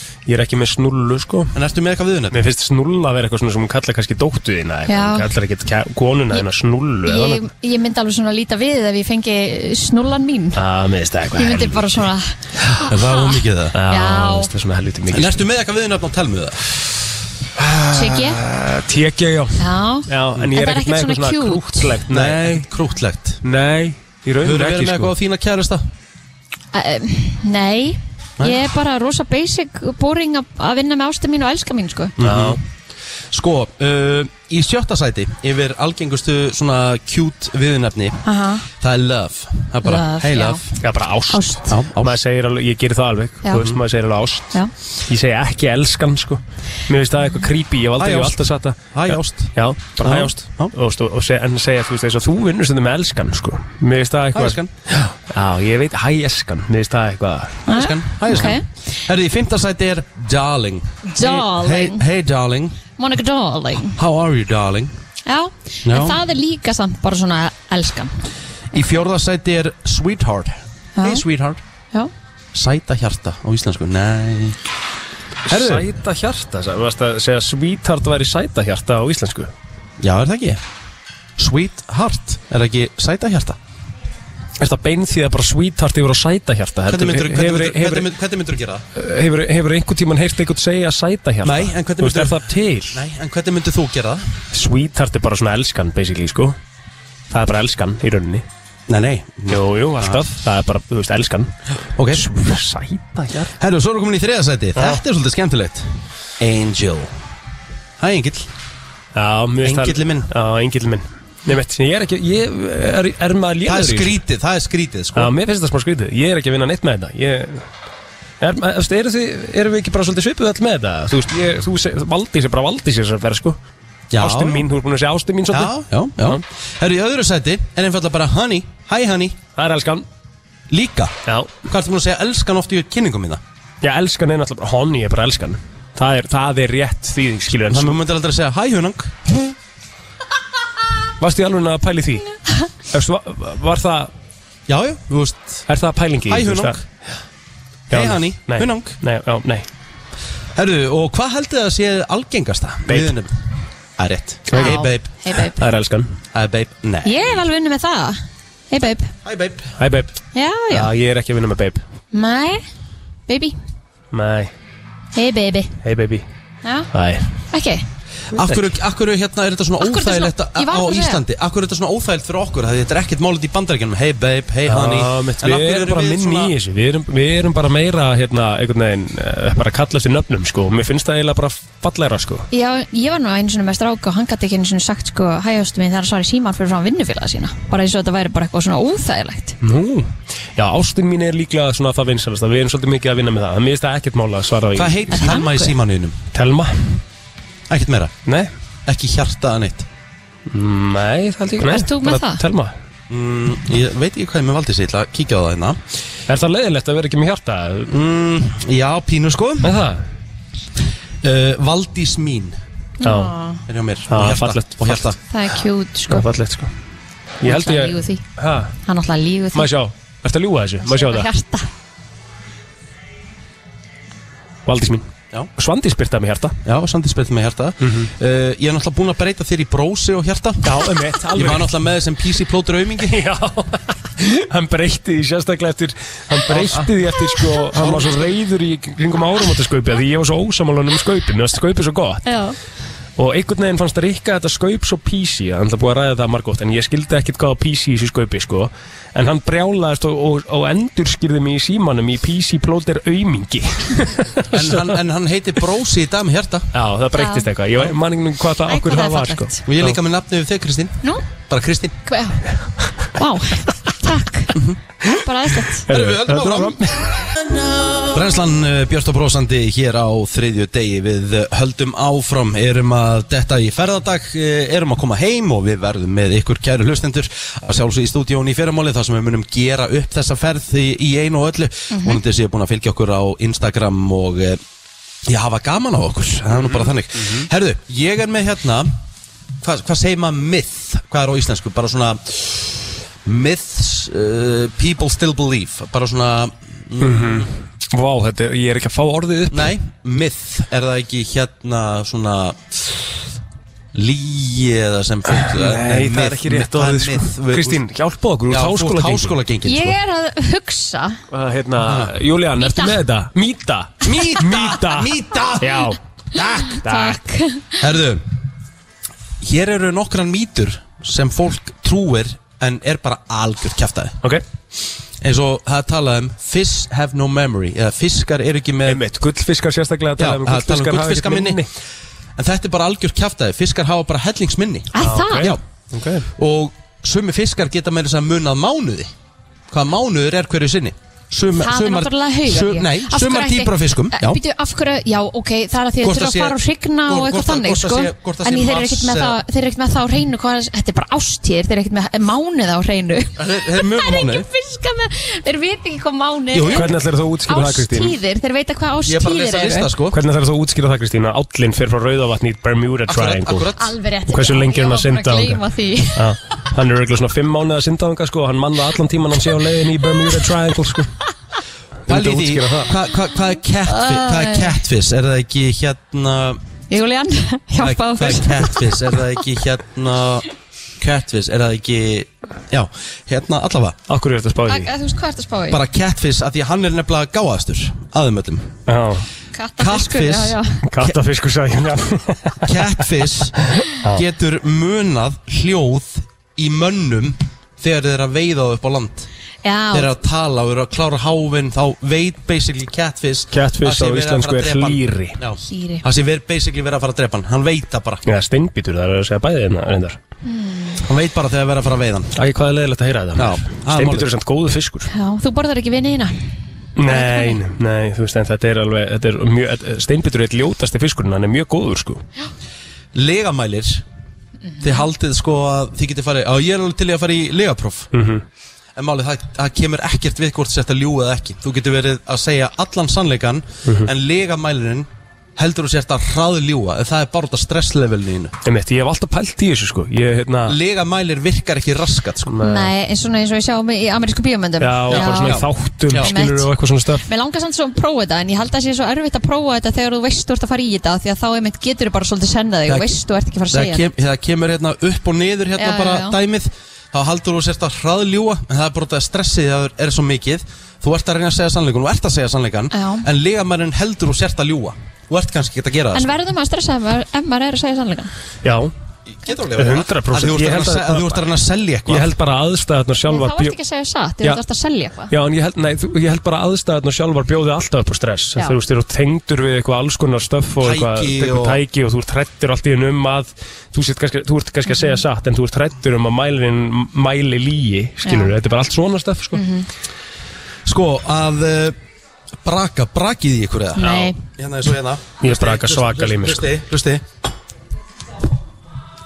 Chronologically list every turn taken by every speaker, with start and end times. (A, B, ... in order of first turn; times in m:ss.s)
0:00.3-0:01.6 A
0:01.5-0:02.4 B
0:02.3-0:07.4 A
0:04.9-0:05.3 C
0:07.1-0:10.6 C
0:10.6-0:12.1 A
0:11.4-0:14.5 C
0:12.8-0:13.8 B
0:13.7-0:15.4 A
0:15.1-0:16.6 B
0:17.6-0:22.7 A
0:17.9-0:18.4 C
0:19.6-0:22.0 C
0:22.1-0:23.4 B
0:23.4-0:25.1 A
0:24.4-0:25.8 B
0:26.7-0:32.2 C
0:32.2-0:32.6 B
0:32.2-0:32.6 A
0:33.3-0:38.2 B
0:38.2-0:38.7 C
0:38.8-0:40.6 B
0:39.8-0:40.6 C
0:40.8-0:44.5 A
0:41.3-0:41.8 C
0:41.7-0:42.2 B
0:43.4-0:43.8 C
0:45.1-0:57.6 A
0:48.0-0:50.7 B
0:54.3-0:54.7 B
0:57.7-0:58.6 C
0:57.7-1:02.8 B
1:01.1-1:02.0 C
1:03.0-1:04.0 C
1:03.9-1:04.9 B
1:05.3-1:08.2 C
1:05.8-1:06.2 B
1:08.7-1:11.6 B
1:11.0-1:11.3 C
1:12.5-1:14.6 B
1:15.5-1:19.5 A
1:15.5-1:15.9 B
1:20.0-1:20.6 B
1:21.4-1:23.6 B
1:24.6-1:28.1 A
1:26.9-1:28.8 B
1:29.0-1:33.0 A
1:31.4-1:34.3 B
1:34.5-1:36.6 A
1:37.3-1:38.4 A
1:38.9-1:40.2 B
1:39.5-1:41.5 A
1:42.0-1:42.2 B
1:42.1-1:43.5 A
1:43.5-1:47.1 B
1:44.8-1:45.0 A
1:48.0-1:48.5 B
1:49.2-1:54.2 A
1:49.6-1:50.3 B
1:53.7-1:55.3 B
1:55.2-1:57.7 A
1:58.4-2:03.6 A
2:04.1-2:04.7 B
2:04.2-2:06.4 A
2:05.5-2:09.4 B
2:09.6-2:10.1 A
2:10.7-2:11.1 B
2:11.3-2:11.6 A
2:11.6-2:13.4 B
2:13.8-2:18.0 A
2:17.7-2:19.5 B
2:21.2-2:22.3 A
2:22.9-2:24.1 A
2:24.7-2:25.6 B
2:25.7-2:26.8 A
2:26.3-2:26.8 B
2:27.9-2:29.0 B
2:27.9-2:29.7 A
2:30.6-2:33.4 B
2:32.9-2:33.2 A
2:34.0-2:35.1 B
2:34.5-2:34.8 A
2:34.5-2:35.6 C
2:35.5-2:36.2 A
2:36.3-2:37.3 B
2:37.0-2:39.1 C
2:39.2-2:39.8 B
2:39.8-2:40.2 A
2:40.3-2:40.9 C
2:40.7-2:41.8 A
2:42.1-2:42.6 C
2:43.3-2:43.6 C
2:44.1-2:44.5 A
2:45.1-2:45.7 C
2:45.8-2:46.3 A
2:46.6-2:46.9 C
2:46.9-2:47.3 A
2:47.5-2:47.8 C
2:48.3-2:48.7 A
2:48.4-2:56.5 B
2:49.8-2:51.2 C
2:54.7-3:02.5 A
3:02.5-3:09.6 C
3:09.6-3:15.3 A
3:14.8-3:16.2 B
3:15.1-3:15.7 C
3:16.3-3:17.0 A
3:17.7-3:18.1 B
3:18.3-3:18.5 A
3:18.9-3:19.9 B
3:20.5-3:22.7 A
3:21.6-3:22.4 C
3:23.1-3:25.8 B
3:26.3-3:28.0 A
3:27.9-3:29.7 B
3:29.6-3:30.0 A
3:31.2-3:32.6 B
3:33.0-3:33.6 C
3:33.0-3:33.3 A
3:33.7-3:35.2 B
3:34.1-3:35.2 A
3:35.3-3:36.3 C
3:36.1-3:36.7 A
3:37.4-3:38.7 A
3:37.4-3:38.2 C
3:38.8-3:39.7 C
3:39.5-3:41.3 A
3:40.8-3:41.7 C
3:44.7-3:46.6 A
3:46.6-3:53.2 B
3:47.8-3:48.1 A
3:50.6-3:51.7 A
3:53.1-4:02.3 A
3:56.5-3:56.9 B
3:57.7-3:58.3 B
4:02.3-4:02.6 C
4:03.2-4:15.0 A
4:14.5-4:16.7 B
4:16.7-4:20.0 A
4:17.2-4:17.5 C
4:18.7-4:19.6 C
4:19.7-4:22.0 B
4:22.1-4:22.4 C
4:23.0-4:25.9 C
4:25.9-4:27.3 A
4:25.9-4:26.8 B
4:28.0-4:44.6 B
4:41.9-4:42.2 C
4:45.3-4:48.9 B
4:49.6-4:57.5 B
4:57.0-4:59.8 A
4:59.5-5:03.0 B
5:03.9-5:07.8 B
5:05.3-5:09.4 A
5:08.5-5:10.0 B
5:09.6-5:11.2 C
5:11.3-5:17.2 A
5:11.8-5:12.1 B
5:12.6-5:13.0 C
5:14.0-5:15.9 B
5:16.4-5:17.9 C
5:17.8-5:18.2 B
5:19.4-5:24.2 B
5:25.2-5:29.0 B
5:28.9-5:31.7 A
5:30.2-5:31.6 B
5:32.4-5:35.6 B
5:34.9-5:35.5 C
5:35.0-5:36.3 A
5:36.4-5:39.1 B
5:39.7-5:44.4 B
5:41.6-5:57.0 C
5:46.0-5:49.4 B
5:53.4-5:54.5 B
5:56.5-5:56.9 B
5:56.7-5:58.2 A
5:57.5-5:59.9 C
5:59.1-6:00.2 B
6:00.1-6:03.7 A
6:03.1-6:04.0 B
6:03.8-6:06.3 C
6:04.3-6:05.6 A
6:06.1-6:11.1 A
6:12.1-6:13.0 A
6:12.1-6:16.6 B
6:13.9-6:14.8 C
6:16.9-6:19.2 C
6:17.8-6:20.5 B
6:21.0-6:24.0 B
6:24.1-6:24.9 A
6:24.7-6:25.8 C
6:25.7-6:28.7 B
6:28.9-6:29.2 A
6:29.5-6:30.8 C
6:29.8-6:31.2 B
6:30.8-6:33.0 A
6:32.6-6:39.3 B
6:33.6-6:34.2 A
6:39.6-6:40.1 C
6:39.9-6:48.2 B
6:43.5-6:45.4 A
6:45.7-6:46.0 C
6:48.2-6:50.2 A
6:50.4-6:51.0 C
6:51.0-6:52.3 B
6:52.3-6:55.1 A
6:53.4-6:54.3 B
6:55.1-6:56.4 C
6:57.0-7:02.2 A
6:57.0-6:57.6 C
7:03.1-7:04.0 B
7:04.8-7:08.1 B
7:08.1-7:08.4 A
7:09.0-7:18.5 B
7:13.8-7:14.1 A
7:18.6-7:20.8 A
7:20.7-7:22.6 B
7:22.4-7:22.9 A
7:22.6-7:34.1 C
7:24.8-7:27.2 A
7:25.1-7:26.3 B
7:32.9-7:33.1 B
7:33.7-7:46.3 B
7:35.8-7:36.4 C
7:42.9-7:43.3 C
7:46.1-7:48.3 C
7:48.6-7:48.9 A
7:49.3-7:52.3 B
7:49.8-7:51.4 A
7:52.1-7:53.8 A
7:53.3-7:55.3 C
7:55.3-8:09.6 A
8:00.8-8:01.8 B
8:08.2-8:08.5 C
8:09.6-8:09.9 C
8:10.9-8:12.0 B
8:12.6-8:17.2 B
8:14.0-8:14.4 C
8:14.0-8:14.4 A
8:15.4-8:16.7 A